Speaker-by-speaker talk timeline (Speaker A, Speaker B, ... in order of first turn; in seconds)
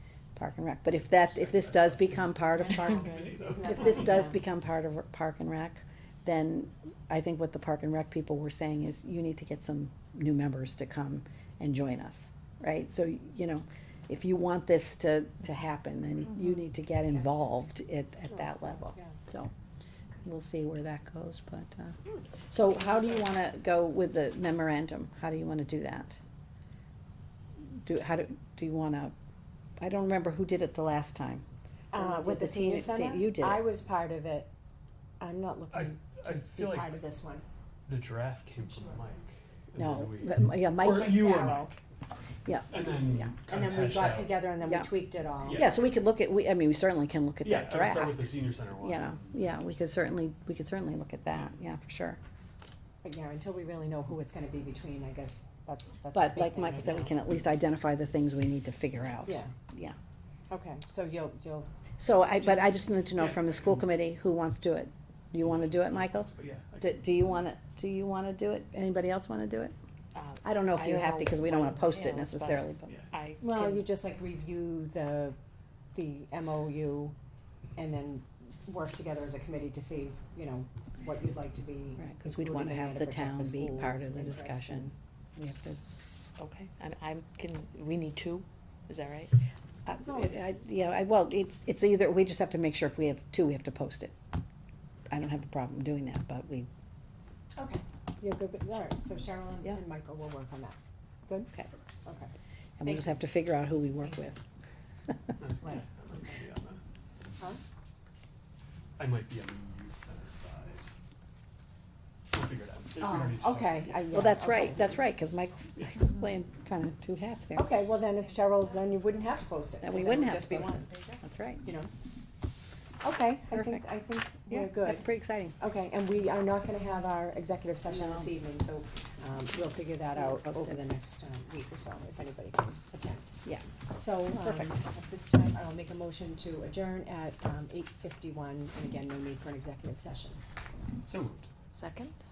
Speaker A: 0.3-3.1, 3.6-19.5, 20.2-22.0, 22.5-26.2, 27.8-29.1, 29.8-33.7, 39.8-41.6, 42.4-43.3, 45.5-52.2, 56.1-60.0, 62.0-66.3, 66.8-69.7, 70.4-72.9, 82.0-85.8, 89.8-94.1, 95.1-96.7, 102.8-104.4, 114.1-117.7, 119.8-121.6, 123.5-123.8, 124.5-125.6, 127.9-128.3, 130.2-130.8, 134.3-134.7
Speaker B: 1.1-4.2, 35.7-37.0, 37.9-41.8, 42.7-44.5, 45.4-45.8, 47.4-49.5, 63.1-63.9, 65.4-67.2, 105.4-106.8, 109.0-110.9, 112.3-114.2, 141.0-141.5
Speaker C: 3.4-4.4, 18.3-19.2, 31.9-34.5, 35.2-37.4, 40.9-41.7, 43.5-45.7, 53.0-57.1, 59.2-59.5, 60.5-61.7, 73.4-75.3, 75.9-77.1, 77.8-84.9, 90.0-90.3, 97.5-101.5, 102.0-102.3, 102.8-103.1, 113.0-114.9, 117.5-120.9, 121.6-121.9, 123.0-133.3, 133.9-140.4
Speaker D: 70.1-73.8, 86.4-89.3, 141.7-142.2